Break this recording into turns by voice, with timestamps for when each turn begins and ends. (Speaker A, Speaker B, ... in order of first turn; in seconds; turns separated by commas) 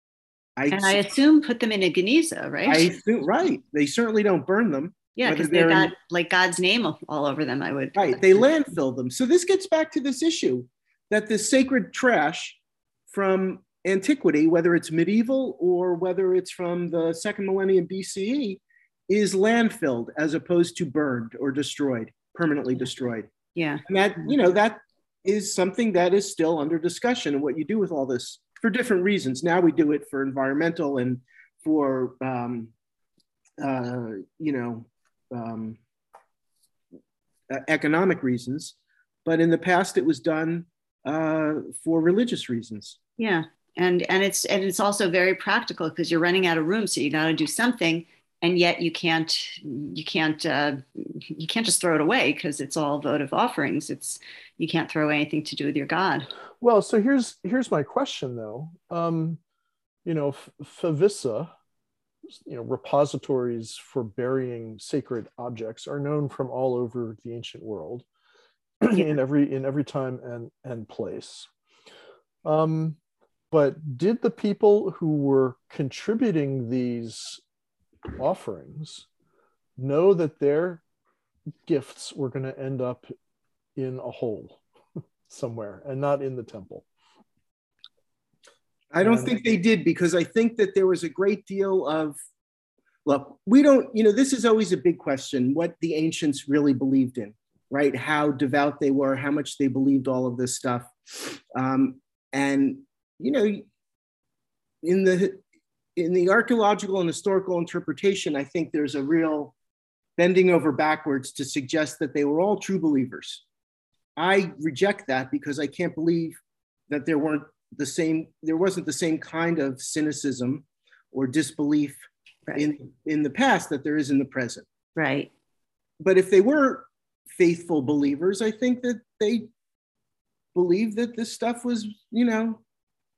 Speaker A: 0.6-1.0, Speaker B: 0.7-2.9, Speaker A: 2.7-5.9, Speaker B: 5.2-8.4, Speaker A: 8.0-12.6, Speaker A: 13.1-23.3, Speaker B: 23.6-23.8, Speaker A: 23.9-32.7, Speaker A: 33.6-35.8, Speaker A: 37.5-43.0, Speaker B: 43.2-56.3, Speaker C: 56.6-59.4, Speaker C: 60.0-61.5, Speaker C: 62.4-68.1, Speaker C: 68.8-71.5, Speaker C: 72.4-73.0, Speaker C: 73.5-77.4, Speaker C: 78.2-79.1, Speaker C: 79.8-80.8, Speaker C: 81.7-83.1, Speaker C: 83.8-84.6, Speaker C: 85.3-86.8, Speaker A: 88.9-92.2, Speaker C: 89.0-89.4, Speaker A: 93.1-103.7, Speaker A: 104.8-105.4, Speaker A: 106.0-109.5, Speaker A: 110.2-113.4, Speaker A: 114.2-124.7, Speaker B: 125.0-125.3, Speaker A: 126.0-129.5, Speaker A: 130.6-132.6